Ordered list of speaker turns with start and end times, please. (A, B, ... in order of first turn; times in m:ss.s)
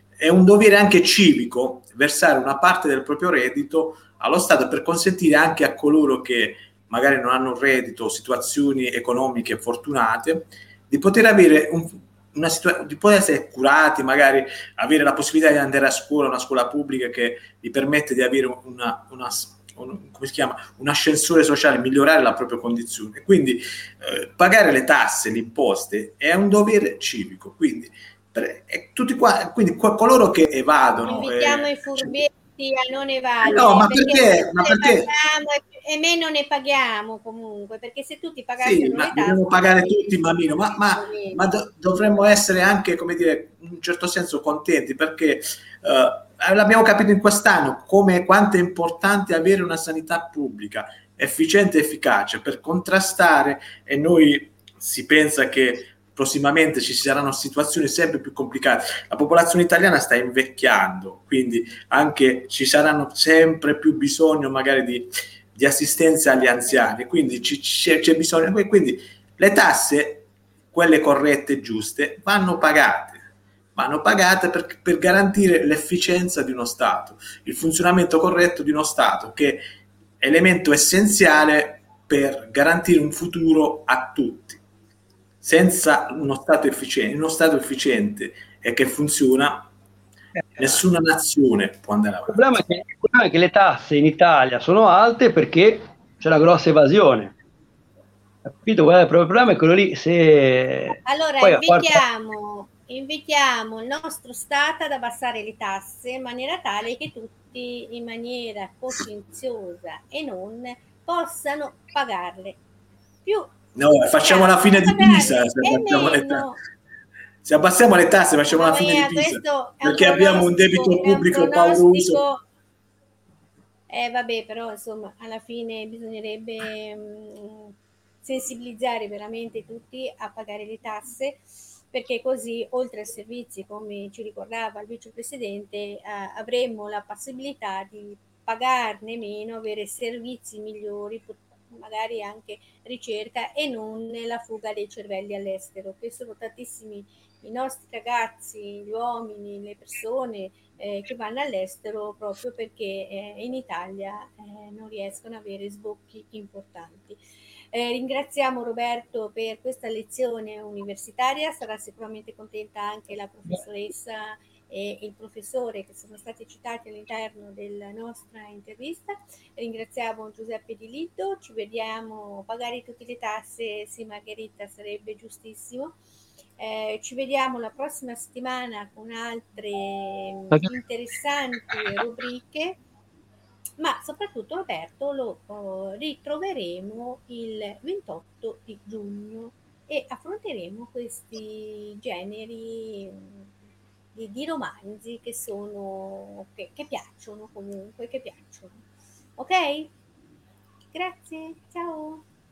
0:00.2-0:32.2 A
0:31.0-0:41.6 B
0:33.4-0:35.1 A
0:38.6-1:19.6 A
1:20.2-1:24.6 A
1:25.4-1:29.7 A
1:30.6-1:32.6 A
1:32.3-1:37.4 C
1:38.4-1:42.0 C
1:41.0-1:52.6 B
1:53.2-1:53.5 B
1:53.7-1:56.4 A
1:54.2-1:56.6 B
1:57.4-2:02.2 A
1:58.5-2:02.4 B
2:03.9-2:37.2 B
2:37.7-2:56.0 B
2:56.6-3:02.8 B
3:03.8-3:13.5 B
3:14.1-3:18.8 B
3:19.4-3:19.9 B
3:20.9-3:22.2 B